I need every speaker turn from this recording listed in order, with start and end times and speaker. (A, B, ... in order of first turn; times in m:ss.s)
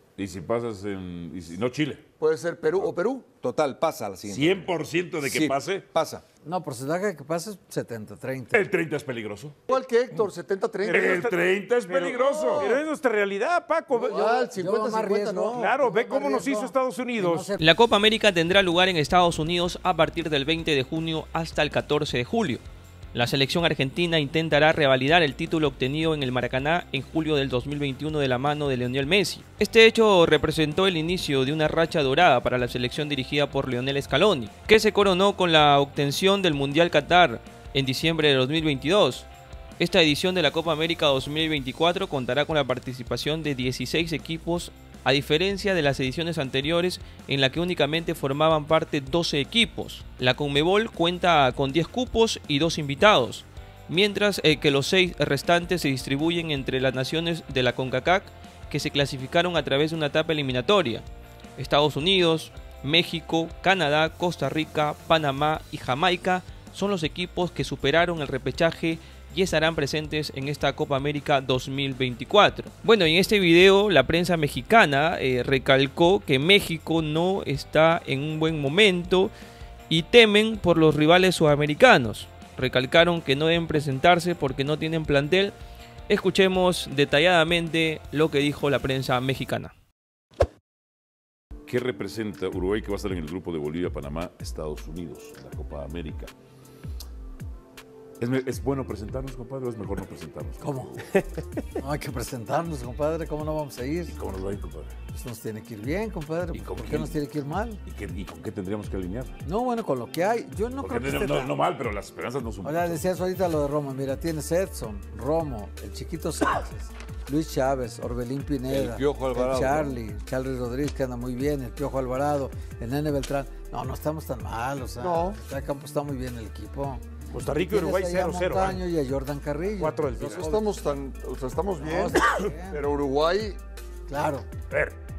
0:00.2-0:02.0 A
0:02.2-0:03.3 B
0:03.4-0:04.7 C
0:04.3-0:05.8 A
0:05.2-0:06.2 C
0:06.5-0:08.6 D
0:08.5-0:09.6 A
0:09.7-0:11.1 B
0:10.8-0:14.3 E
0:10.9-0:12.7 A
0:12.2-0:12.8 B
0:14.0-0:17.7 D
0:14.1-0:15.6 B
0:15.6-0:17.5 E
0:17.6-0:22.6 F
0:23.1-0:39.3 F
0:39.8-1:01.0 F
1:01.6-1:19.3 F
1:19.9-1:25.6 F
1:26.1-1:29.7 F
1:31.7-1:36.3 A
1:38.2-1:41.1 A
1:40.6-1:41.0 D
1:41.8-1:44.2 D
1:44.1-1:45.0 A
1:45.1-1:47.8 D
1:46.5-1:47.2 A
1:47.8-1:49.3 A
1:49.4-1:51.5 D
1:50.8-1:53.0 A
1:52.6-2:10.7 D
1:58.7-1:59.9 C
2:05.0-2:05.4 B
2:07.3-2:08.8 E
2:09.8-2:10.4 E
2:10.4-2:13.6 B
2:11.8-2:12.8 D
2:14.1-2:14.5 D
2:14.7-2:15.0 E